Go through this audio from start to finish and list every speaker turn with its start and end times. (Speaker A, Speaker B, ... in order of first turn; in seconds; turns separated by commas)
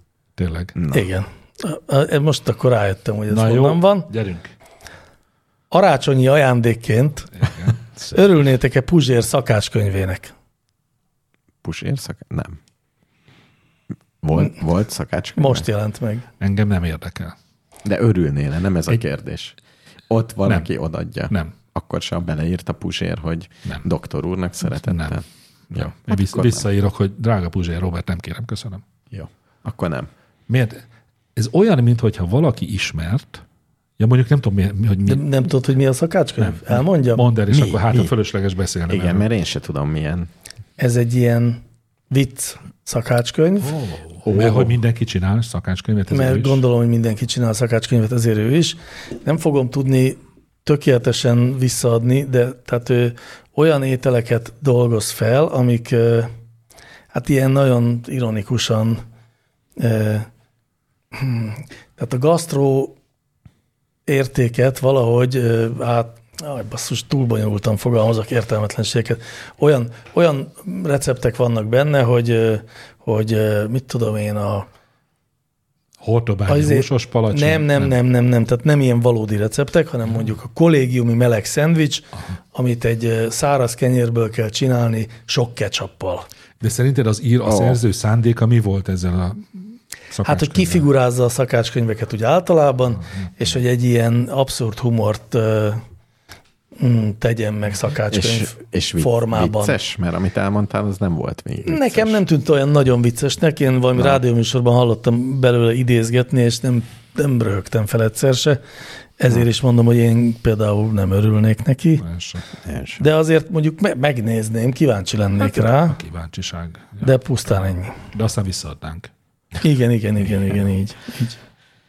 Speaker A: 0.4-0.7, Speaker B: 0.7-1.1, Speaker C: 0.9-4.1, Speaker A: 3.3-4.5, Speaker C: 5.7-7.3, Speaker A: 7.3-8.2, Speaker C: 8.1-10.3, Speaker B: 11.6-12.6, Speaker B: 14.2-15.7, Speaker C: 15.4-16.3, Speaker A: 16.4-17.3, Speaker B: 17.8-19.6, Speaker B: 20.1-26.7, Speaker A: 21.3-21.5, Speaker A: 24.8-28.8, Speaker B: 29.1-30.1, Speaker A: 30.5-30.8, Speaker A: 31.4-33.4, Speaker A: 34.0-35.2, Speaker C: 35.1-37.2, Speaker A: 36.4-39.3, Speaker B: 37.5-38.1, Speaker B: 38.9-40.3, Speaker C: 40.8-43.7, Speaker A: 43.6-46.6, Speaker B: 44.2-44.8, Speaker C: 46.1-56.3, Speaker C: 57.1-59.0, Speaker C: 59.8-60.2, Speaker C: 61.1-62.9, Speaker C: 64.1-74.7, Speaker A: 76.0-77.9, Speaker C: 76.5-86.2, Speaker A: 86.6-90.9, Speaker B: 87.4-87.8, Speaker C: 90.2-95.8, Speaker A: 93.0-93.3, Speaker C: 96.8-99.8, Speaker B: 98.1-102.2, Speaker C: 101.7-108.6, Speaker B: 103.9-104.2, Speaker C: 109.2-112.0, Speaker A: 112.0-112.4, Speaker B: 112.6-113.1, Speaker C: 113.0-116.0, Speaker A: 115.4-119.1, Speaker C: 117.0-117.9, Speaker C: 119.6-121.4